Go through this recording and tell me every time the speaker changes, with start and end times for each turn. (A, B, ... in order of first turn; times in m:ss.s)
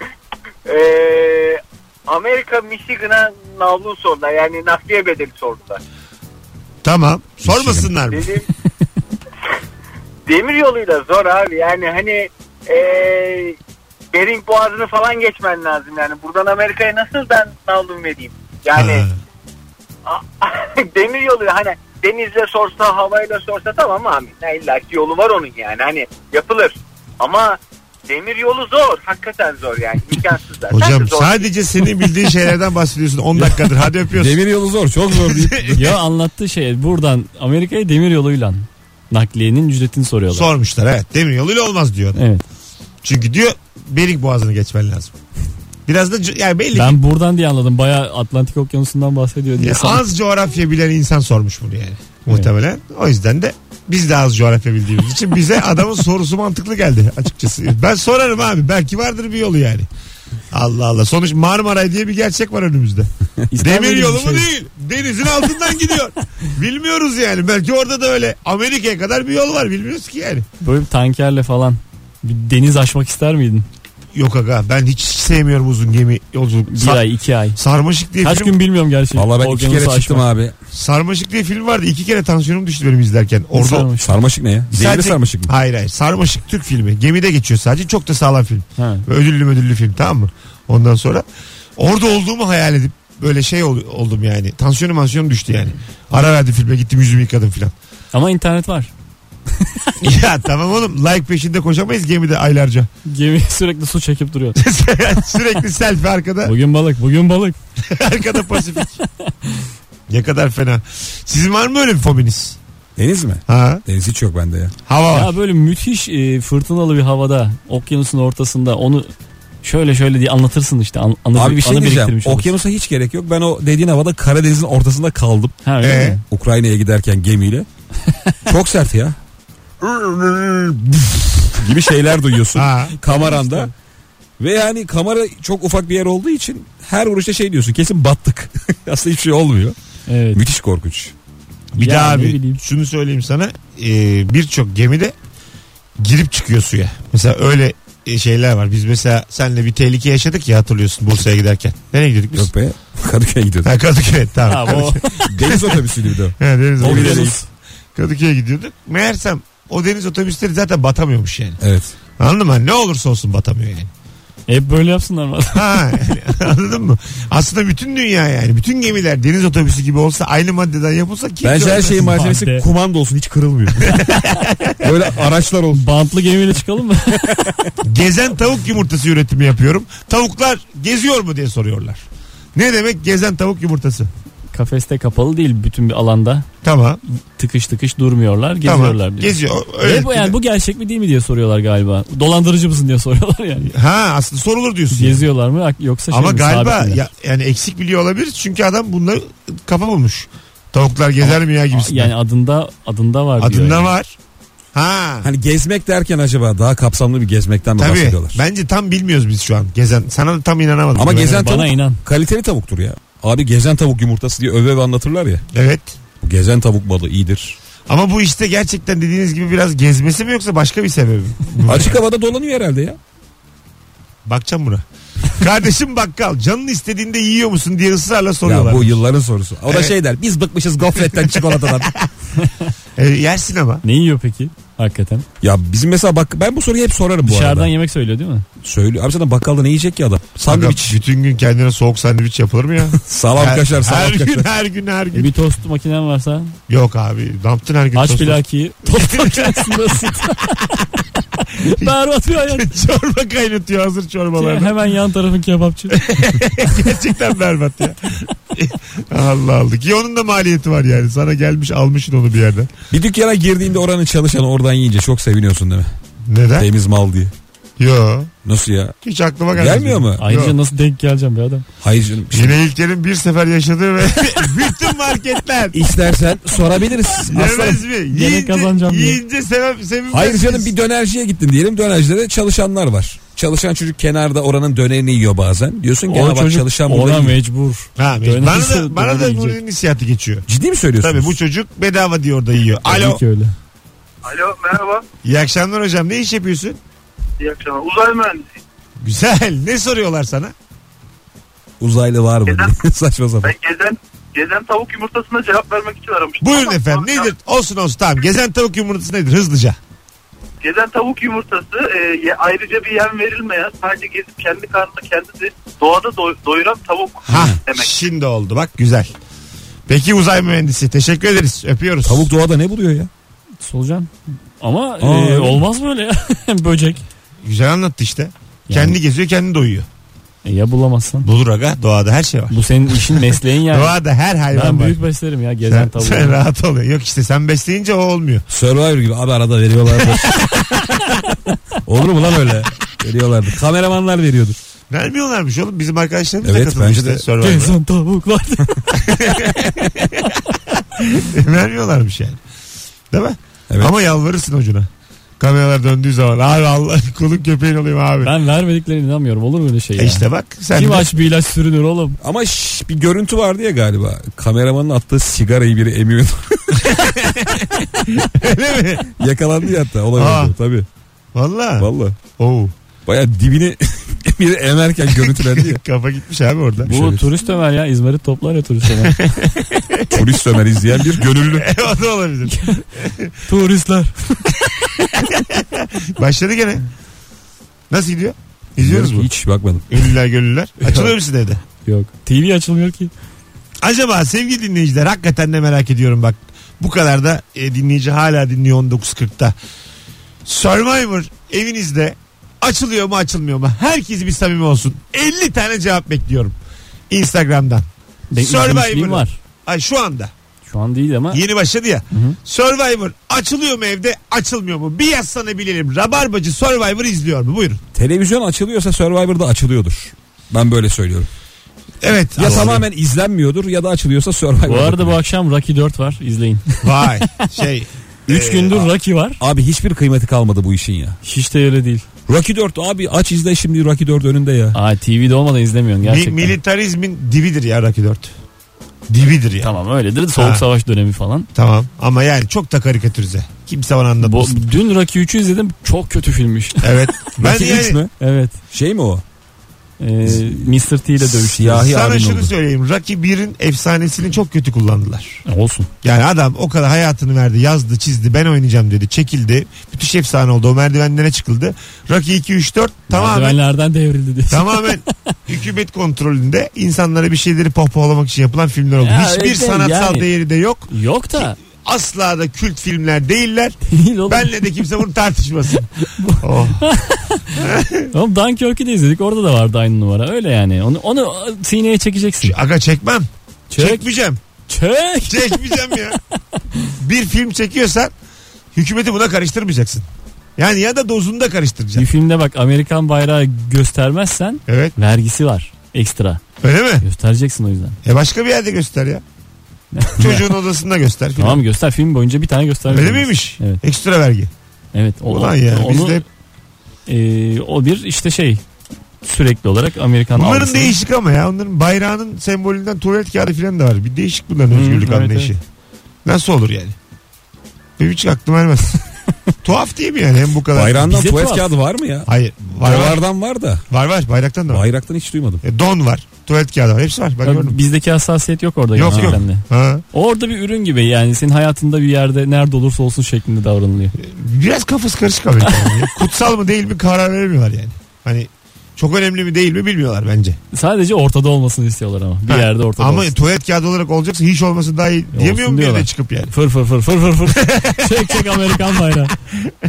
0:00.6-0:05.8 A
0:06.8-0:08.3 B
0:07.4-0:07.9 C
0:08.1-0:08.5 A
0:10.3-0:13.6 A
0:14.1-0:19.0 A
0:18.8-0:19.1 B
0:20.0-0:31.5 A
0:30.7-0:34.4 B
0:34.1-0:35.9 C
0:35.1-0:35.8 B
0:35.7-0:40.5 D
0:40.3-0:42.2 B
0:42.1-0:42.4 D
0:43.0-0:45.1 B
0:45.8-0:47.0 B
0:46.7-0:50.0 D
0:49.6-0:59.9 B
1:00.5-1:10.4 B
1:03.5-1:04.5 D
1:10.6-1:13.6 D
1:14.1-1:17.0 B
1:16.7-1:17.6 D
1:17.6-1:18.6 B
1:18.2-1:20.2 D
1:19.1-1:20.5 C
1:20.7-1:23.9 B
1:23.5-1:24.2 D
1:24.0-1:25.5 C
1:24.7-1:31.2 B
1:28.8-1:29.0 D
1:31.8-1:37.7 B
1:38.1-1:38.9 D
1:39.6-1:39.9 D
1:40.0-1:42.9 B
1:43.1-1:44.6 D
1:44.6-1:46.5 B
1:46.4-1:47.6 D
1:47.8-1:49.0 B
1:49.0-1:49.6 D
1:50.1-1:52.6 B
1:53.0-1:54.7 C
1:53.5-1:53.8 B
1:54.8-1:55.3 B
1:55.1-1:59.1 D
1:59.6-2:02.5 D
2:01.3-2:05.6 C
2:05.6-2:06.2 D
2:05.8-2:06.2 B
2:06.3-2:07.7 C
2:08.4-2:09.2 C
2:09.8-2:13.7 C
2:12.5-2:13.0 B
2:13.0-2:13.7 D
2:14.4-2:19.8 C
2:20.1-2:20.4 D
2:20.3-2:21.1 C
2:21.7-2:25.1 B
2:21.8-2:22.6 D
2:26.0-2:32.5 B
2:32.3-2:33.7 C
2:33.6-2:35.8 B
2:34.5-2:35.5 D
2:35.2-2:37.4 C
2:36.4-2:37.3 B
2:36.8-2:37.4 D
2:37.9-2:41.6 B
2:41.6-2:41.9 C
2:42.2-2:43.9 B
2:44.5-2:45.9 D
2:45.5-2:52.1 B
2:51.4-2:54.1 C
2:51.8-2:52.6 D
2:53.8-2:54.9 B
2:54.8-2:55.8 C
2:55.7-2:57.5 D
2:57.8-3:02.0 B
3:02.5-3:04.1 B
3:04.5-3:06.4 D
3:06.6-3:07.0 B
3:07.4-3:13.7 D
3:08.6-3:10.4 B
3:13.7-3:15.2 B
3:14.9-3:17.0 D
3:16.1-3:22.1 B
3:21.2-3:23.9 D
3:23.4-3:24.1 B
3:24.7-3:25.3 B
3:25.2-3:28.4 C
3:27.8-3:31.5 B
3:31.0-3:35.4 C
3:31.3-3:32.0 D
3:35.5-3:36.0 B
3:36.2-3:37.6 C
3:37.9-3:42.0 B
3:41.6-3:43.0 C
3:44.2-3:49.0 B
3:48.4-3:51.9 C
3:49.7-3:49.9 B
3:51.0-3:52.0 B
3:52.4-3:52.7 D
3:53.0-3:53.8 B
3:53.8-3:55.2 D
3:55.4-3:57.7 C
3:57.2-3:58.4 D
3:58.6-4:01.0 C
4:00.4-4:05.3 B
4:03.0-4:04.5 C
4:05.1-4:06.6 D
4:06.7-4:09.8 B
4:07.9-4:10.8 D
4:11.4-4:12.7 D
4:11.8-4:14.8 B
4:14.4-4:16.3 D
4:15.9-4:22.8 B
4:22.9-4:25.9 C
4:26.2-4:26.7 B
4:26.6-4:27.3 C
4:27.8-4:28.3 B
4:28.4-4:29.0 C
4:29.0-4:30.5 B
4:29.6-4:30.2 C
4:30.2-4:31.6 D
4:31.8-4:32.6 C
4:32.3-4:35.9 B
4:35.7-4:37.8 C
4:37.2-4:40.7 B
4:38.1-4:39.2 D
4:40.1-4:47.4 C
4:46.1-4:49.6 D
4:48.0-4:50.4 B
4:50.5-4:51.3 C
4:51.0-4:53.2 B
4:52.8-4:53.5 D
4:54.2-4:55.0 E
4:55.2-4:56.8 B
4:57.4-4:58.6 E
4:59.0-5:00.5 B
5:01.8-5:03.5 C
5:02.4-5:02.8 E
5:03.4-5:07.3 E
5:06.4-5:09.8 B
5:10.6-5:17.9 E
5:17.3-5:19.1 B
5:17.3-5:17.6 C
5:19.9-5:22.3 B
5:22.0-5:23.1 C
5:23.6-5:27.0 D
5:25.0-5:25.6 C
5:27.4-5:29.9 B
5:28.7-5:29.0 D
5:30.4-5:31.3 D
5:31.2-5:35.0 B
5:32.5-5:34.0 D
5:34.5-5:36.4 D
5:35.6-5:38.4 B
5:38.5-5:40.5 C
5:41.8-5:44.6 C
5:44.9-5:47.8 B
5:46.4-5:47.2 C
5:47.4-5:50.4 D
5:49.0-5:50.3 B
5:50.9-5:52.4 B
5:53.1-5:58.4 B
5:58.2-6:02.2 D
6:00.0-6:01.1 B
6:02.2-6:07.0 C
6:06.8-6:09.1 B
6:09.1-6:10.8 C
6:10.1-6:10.5 B
6:11.3-6:12.7 B
6:11.8-6:12.2 C
6:13.0-6:15.8 C
6:15.1-6:16.9 B
6:16.8-6:17.3 C
6:16.8-6:19.5 D
6:19.0-6:20.2 B
6:20.1-6:21.7 C
6:21.5-6:23.4 B
6:22.5-6:22.8 D
6:23.4-6:25.3 D
6:25.3-6:26.8 B
6:27.9-6:29.3 B
6:28.8-6:30.0 C
6:29.9-6:31.6 B
6:30.8-6:31.2 D
6:31.8-6:33.1 D
6:33.8-6:39.6 B
6:40.4-6:46.6 B
6:47.1-6:50.3 B
6:48.3-6:49.4 D
6:50.7-6:51.4 D
6:51.3-6:57.8 B
6:52.1-6:52.4 D
6:57.9-7:01.3 C
7:02.0-7:02.8 B
7:02.4-7:05.2 C
7:04.6-7:07.4 D
7:06.8-7:08.8 B
7:08.3-7:09.4 D
7:09.4-7:11.2 C
7:11.2-7:12.0 D
7:12.3-7:14.8 C
7:14.7-7:16.5 D
7:16.0-7:18.3 B
7:19.1-7:19.7 B
7:19.6-7:21.5 D
7:20.3-7:20.6 B
7:21.5-7:24.6 B
7:24.2-7:27.3 D
7:26.8-7:28.0 B
7:27.4-7:28.1 C
7:28.2-7:28.6 D
7:28.7-7:29.2 C
7:30.0-7:31.9 D
7:30.2-7:32.5 C
7:31.7-7:35.4 B
7:35.4-7:35.9 D
7:36.0-7:43.6 B
7:43.1-7:45.3 D
7:44.5-7:53.8 B
7:49.0-7:50.3 D
7:50.9-7:51.6 D
7:53.8-7:54.6 D
7:54.3-7:56.8 B
7:56.0-8:02.6 D
7:57.6-7:58.1 B
8:02.4-8:04.4 B
8:03.7-8:04.0 D
8:04.7-8:06.2 D
8:05.3-8:06.2 B
8:07.0-8:08.1 B
8:08.7-8:10.0 B
8:10.6-8:12.1 B
8:12.0-8:16.4 D
8:14.7-8:14.9 B
8:16.6-8:17.0 B
8:17.0-8:18.0 D
8:18.0-8:19.2 B
8:19.9-8:20.5 D
8:20.2-8:21.6 B
8:21.4-8:23.8 D
8:22.9-8:24.5 B
8:24.9-8:26.2 D
8:25.3-8:26.2 B
8:27.1-8:28.6 D
8:29.2-8:31.0 D
8:30.3-8:35.6 B
8:34.7-8:35.5 D
8:36.2-8:37.0 B
8:38.0-8:39.0 B
8:39.6-8:41.1 B
8:40.7-8:43.8 C
8:41.1-8:41.7 D
8:42.3-8:43.2 B
8:43.9-8:44.8 B
8:44.7-8:45.6 C
8:45.6-8:47.8 B
8:47.4-8:54.1 D
8:49.0-8:50.0 B
8:49.0-8:49.4 C
8:54.2-9:00.6 B
8:55.6-8:56.0 D
9:00.7-9:03.3 D
9:02.5-9:06.5 B
9:05.3-9:09.3 D
9:07.5-9:09.7 B